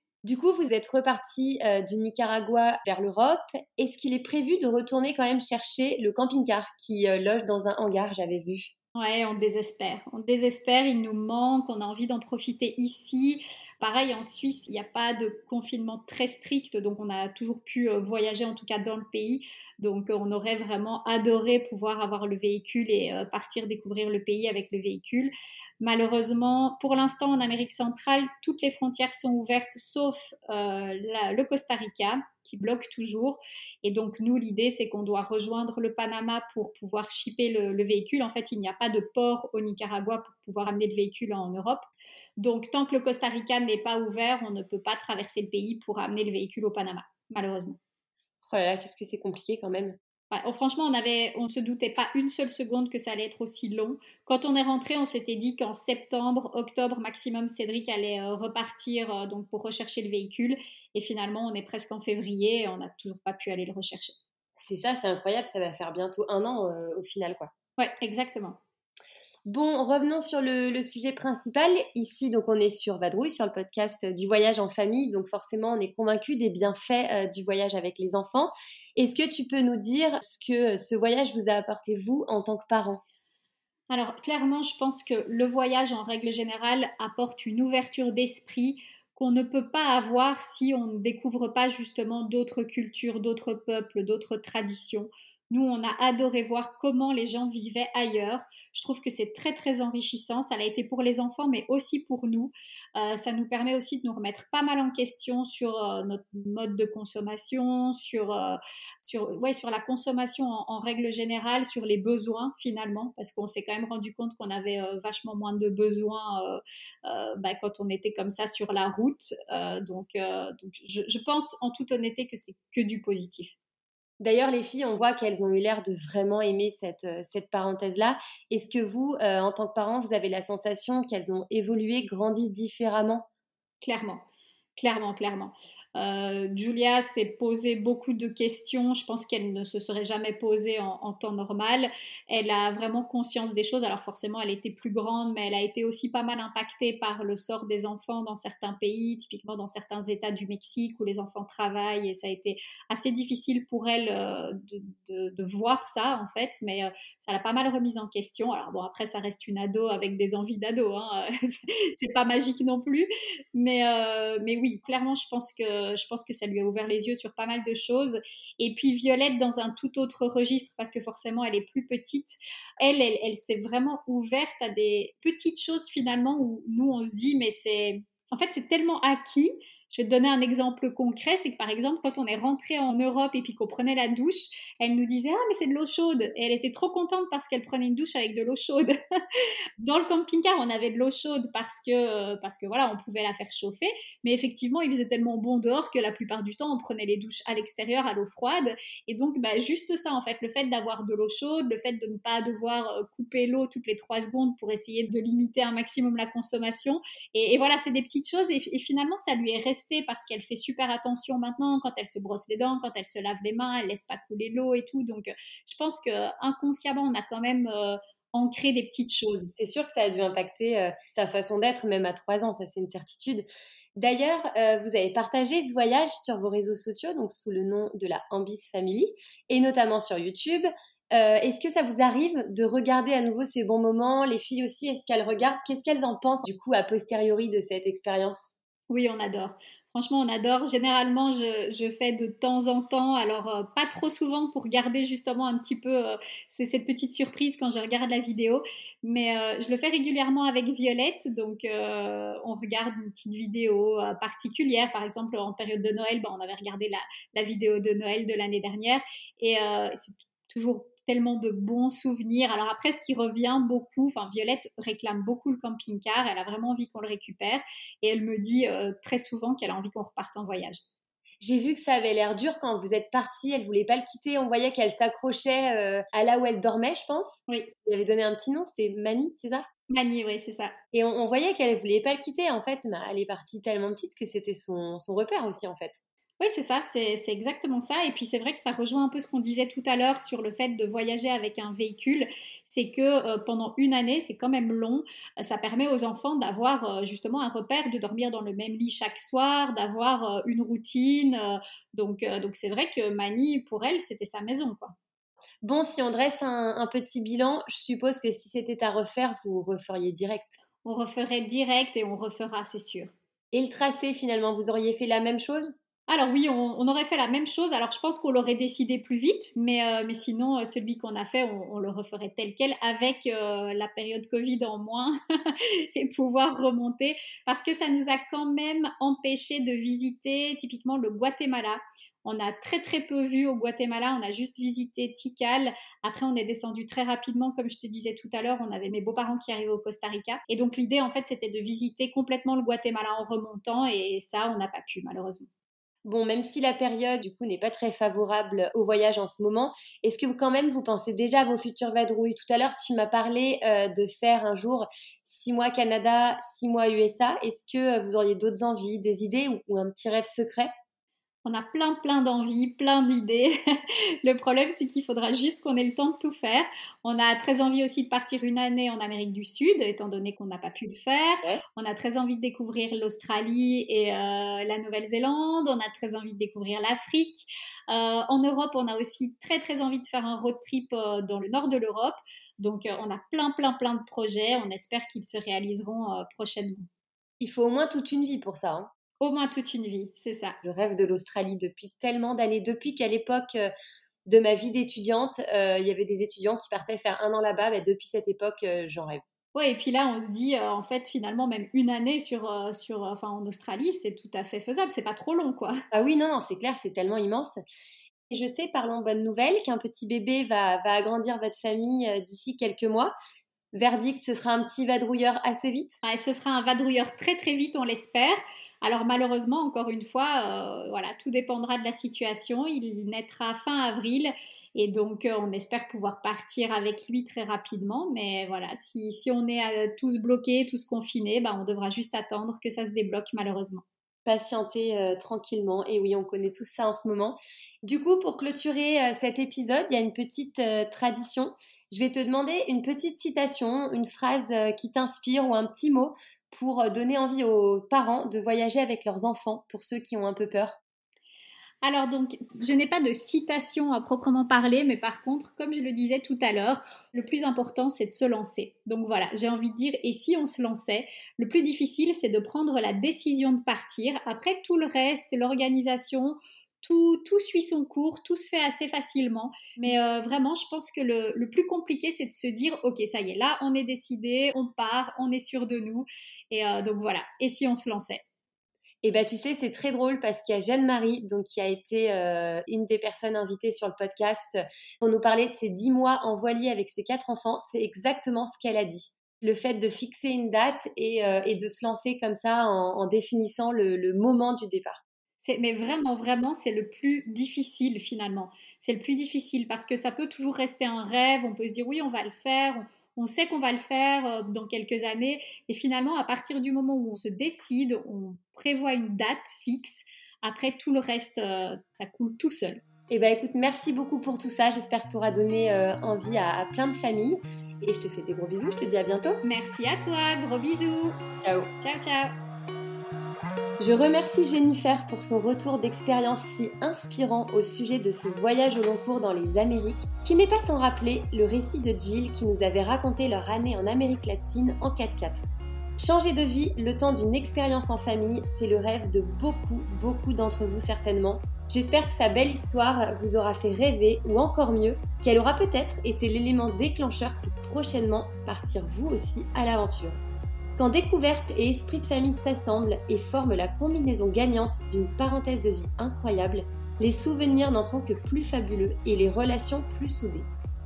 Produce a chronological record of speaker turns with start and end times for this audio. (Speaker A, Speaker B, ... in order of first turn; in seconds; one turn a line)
Speaker A: 0.2-8.7
Speaker B: 8.9-41.9
Speaker B: 42.4-47.8
Speaker A: 48.4-50.0
Speaker B: 50.3-64.1
Speaker A: 64.6-67.5
Speaker B: 67.8-68.6
Speaker A: 69.5-83.0
Speaker B: 83.9-123.5
Speaker A: 124.2-133.3
Speaker B: 133.8-134.2
Speaker B: 134.8-188.9
Speaker B: 189.8-219.5
Speaker A: 219.6-238.5
Speaker B: 238.9-270.8
Speaker A: 271.4-279.6
Speaker B: 279.9-280.7
Speaker A: 280.9-286.0
Speaker B: 286.4-304.9
Speaker A: 305.6-310.6
Speaker B: 310.9-313.1
Speaker A: 313.5-315.8
Speaker B: 316.1-345.5
Speaker A: 346.1-360.7
Speaker B: 361.4-363.6
Speaker B: 364.2-386.9
Speaker A: 387.4-388.9
Speaker B: 389.2-390.6
Speaker A: 390.6-393.7
Speaker A: 394.3-399.2
Speaker B: 399.6-405.8
Speaker A: 405.9-407.6
Speaker A: 408.3-413.1
Speaker A: 413.7-416.0
Speaker B: 416.0-433.8
Speaker A: 434.3-450.8
Speaker B: 451.8-478.2
Speaker A: 479.0-495.0
Speaker B: 495.4-512.8
Speaker A: 513.1-519.4
Speaker B: 519.4-521.2
Speaker A: 521.4-521.7
Speaker B: 521.8-522.3
Speaker A: 523.8-535.4
Speaker A: 536.0-550.2
Speaker A: 550.8-560.5